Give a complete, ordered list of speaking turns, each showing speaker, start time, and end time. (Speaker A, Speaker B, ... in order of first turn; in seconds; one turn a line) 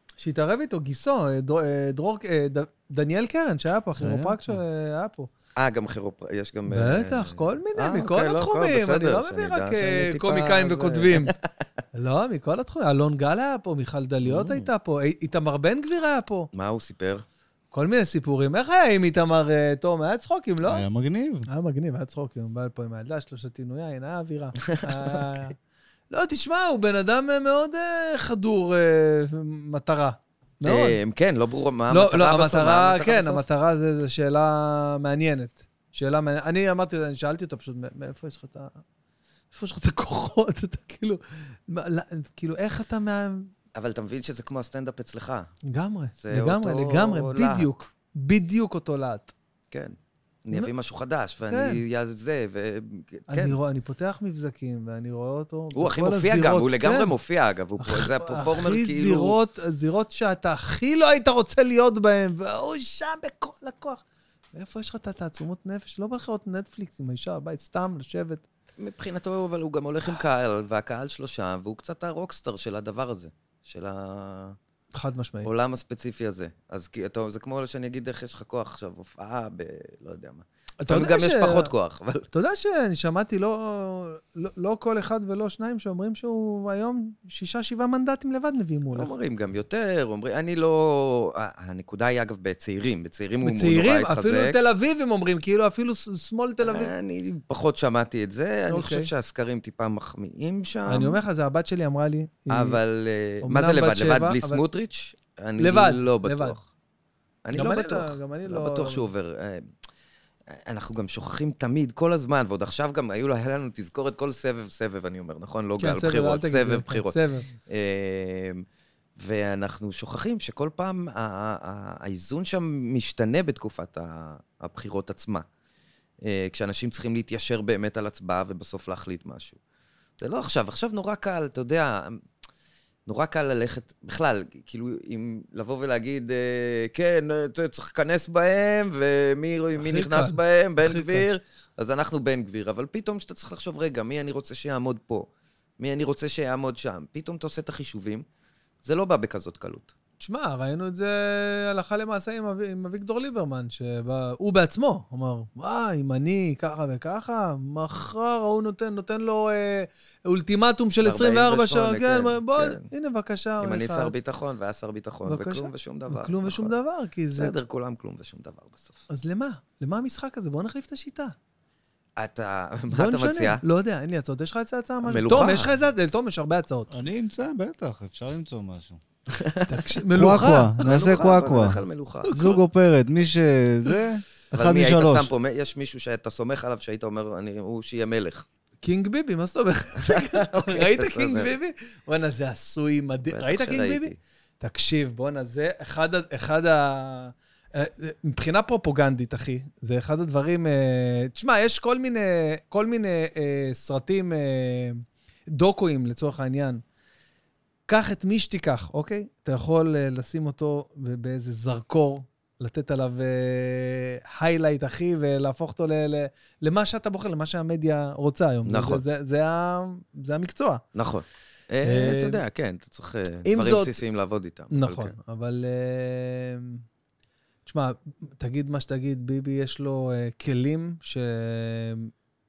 Speaker A: 0.2-5.3
Speaker B: 4.0-4.6
Speaker C: 5.5-11.3
Speaker A: 6.7-11.3
Speaker A: 11.9-16.5
Speaker C: 14.2-14.7
Speaker C: 16.5-17.2
Speaker A: 17.7-20.8
Speaker B: 20.7-21.5
Speaker A: 21.5-25.6
Speaker C: 24.7-25.2
Speaker A: 26.1-31.0
Speaker C: 30.6-33.4
Speaker A: 31.9-38.8
Speaker A: 39.5-43.5
Speaker C: 43.7-45.5
Speaker A: 45.7-49.3
Speaker C: 46.2-47.7
Speaker C: 49.7-53.6
Speaker A: 51.5-51.8
Speaker A: 53.3-57.1
Speaker C: 55.7-59.4
Speaker A: 57.8-68.4
Speaker C: 68.8-74.6
Speaker A: 74.9-75.5
Speaker C: 75.4-82.3
Speaker A: 80.8-81.7
Speaker A: 82.3-89.1
Speaker C: 88.9-94.6
Speaker A: 93.4-96.9
Speaker C: 96.6-101.2
Speaker A: 98.7-99.1
Speaker A: 100.9-102.8
Speaker C: 102.5-106.6
Speaker A: 103.4-104.6
Speaker A: 105.6-106.6
Speaker C: 107.4-109.7
Speaker A: 107.5-109.0
Speaker C: 110.5-118.6
Speaker A: 115.8-117.5
Speaker C: 119.2-125.5
Speaker C: 126.2-129.6
Speaker C: 130.2-132.2
Speaker C: 133.1-148.2
Speaker A: 139.8-141.2
Speaker C: 148.8-149.9
Speaker A: 150.2-164.1
Speaker C: 161.0-162.9
Speaker C: 163.6-166.7
Speaker A: 165.2-167.5
Speaker C: 167.3-169.0
Speaker A: 169.1-171.3
Speaker C: 172.2-173.6
Speaker A: 172.9-176.9
Speaker C: 175.0-175.7
Speaker B: 176.9-179.0
Speaker C: 179.3-179.8
Speaker A: 179.7-180.9
Speaker B: 180.1-185.3
Speaker C: 180.8-182.3
Speaker A: 182.2-182.6
Speaker C: 184.5-188.4
Speaker A: 188.8-206.8
Speaker C: 190.0-191.5
Speaker C: 193.3-194.2
Speaker A: 207.9-220.8
Speaker C: 218.6-219.0
Speaker C: 220.9-225.1
Speaker A: 221.8-222.4
Speaker A: 223.4-224.0
Speaker A: 224.7-226.8
Speaker A: 227.7-232.1